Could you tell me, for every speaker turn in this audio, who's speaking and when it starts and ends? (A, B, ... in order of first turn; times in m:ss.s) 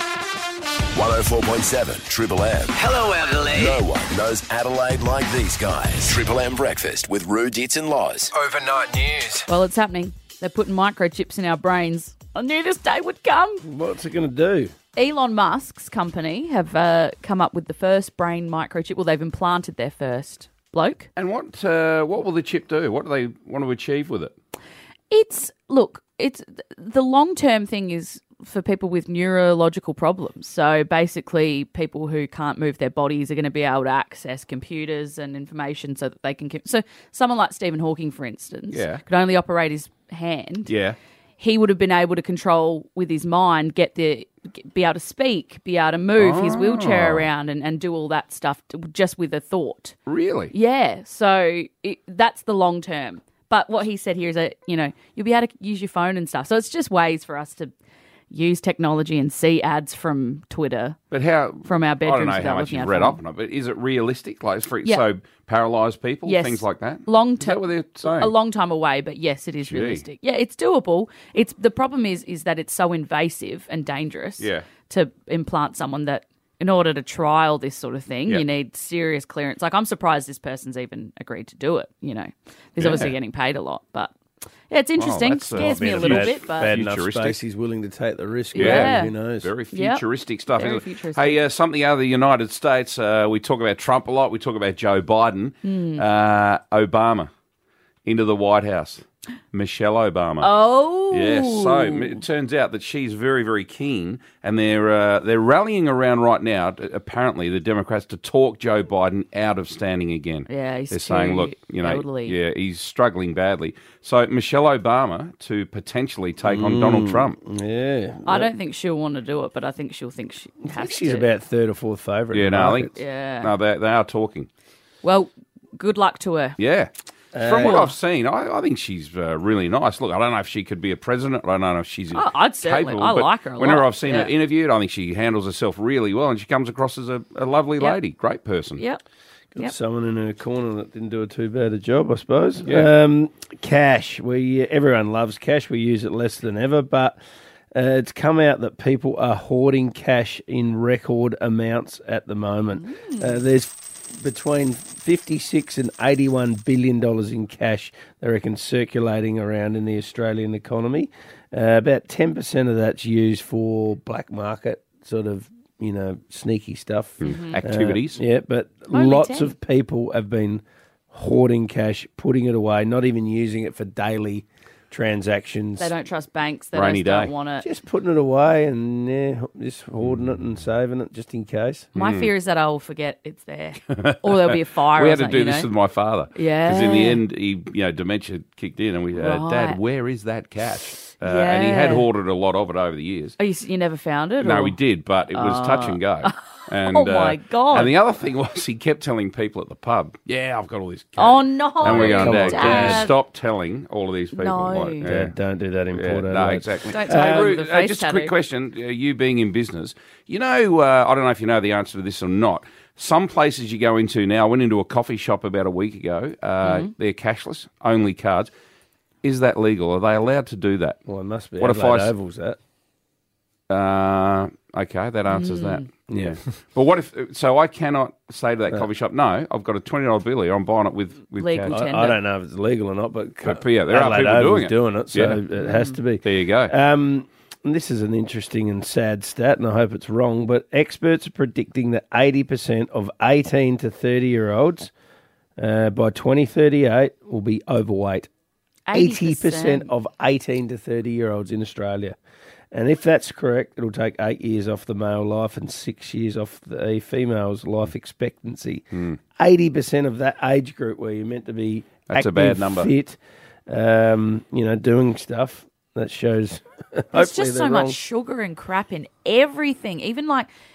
0:00.9-0:02.8 A
0:02.7-0:03.8 B
0:03.6-0:08.3 A
0:08.3-0:09.4 B
0:09.5-0:13.6 C
0:13.6-0:14.7 D
0:14.9-0:21.1 C
0:21.2-0:24.3 E
0:25.1-0:40.7 C
0:38.7-0:39.0 E
0:40.7-0:41.0 E
0:41.4-0:50.0 C
0:46.2-0:47.3 E
0:50.1-0:50.5 E
0:50.5-0:57.7 C
0:58.3-1:01.0 C
1:01.1-1:08.3 E
1:01.6-1:03.2 C
1:06.2-1:24.1 C
1:09.6-1:10.0 E
1:14.4-1:14.6 E
1:22.8-1:23.1 E
1:24.7-1:26.7 C
1:25.0-1:27.4 E
1:25.6-1:29.5 D
1:28.5-1:29.1 C
1:28.6-1:37.3 E
1:29.7-1:31.4 C
1:35.6-1:36.0 C
1:38.0-1:40.5 E
1:40.4-1:42.1 C
1:41.1-1:57.4 E
1:50.5-1:52.4 C
1:56.4-1:58.5 D
1:58.2-2:01.3 C
2:00.6-2:02.9 D
2:02.3-2:04.5 E
2:02.9-2:03.5 C
2:05.0-2:06.6 C
2:06.6-2:18.8 E
2:07.3-2:07.9 D
2:07.6-2:07.9 C
2:12.1-2:14.3 C
2:19.5-2:27.2 D
2:27.7-2:55.9 D
2:32.7-2:33.4 C
2:47.2-2:48.2 E
2:47.2-2:47.6 C
2:48.9-2:49.5 C
2:55.8-2:57.6 C
2:56.7-2:57.3 E
2:57.6-3:01.9 D
3:01.9-3:02.3 E
3:01.9-3:05.7 C
3:04.0-3:13.3 E
3:06.3-3:07.2 C
3:09.1-3:09.8 C
3:11.2-3:12.1 C
3:13.4-3:14.8 C
3:14.4-3:25.3 E
3:15.3-3:17.9 C
3:21.2-3:23.2 C
3:21.8-3:23.1 D
3:24.3-3:25.1 C
3:25.0-3:27.5 D
3:25.9-3:38.5 E
3:26.9-3:28.3 C
3:36.6-3:36.9 C
3:39.2-3:41.0 E
3:41.0-3:42.6 D
3:41.6-3:42.1 E
3:43.7-3:51.8 E
3:45.3-3:45.8 C
3:46.1-3:46.4 D
3:51.4-3:52.2 C
3:51.7-4:04.9 D
3:53.4-3:55.4 E
3:55.6-3:56.0 C
3:56.2-3:56.7 E
4:05.6-4:08.3 D
4:08.8-4:09.9 C
4:08.9-4:12.2 D
4:12.7-4:28.0 D
4:22.1-4:22.9 E
4:27.1-4:30.5 C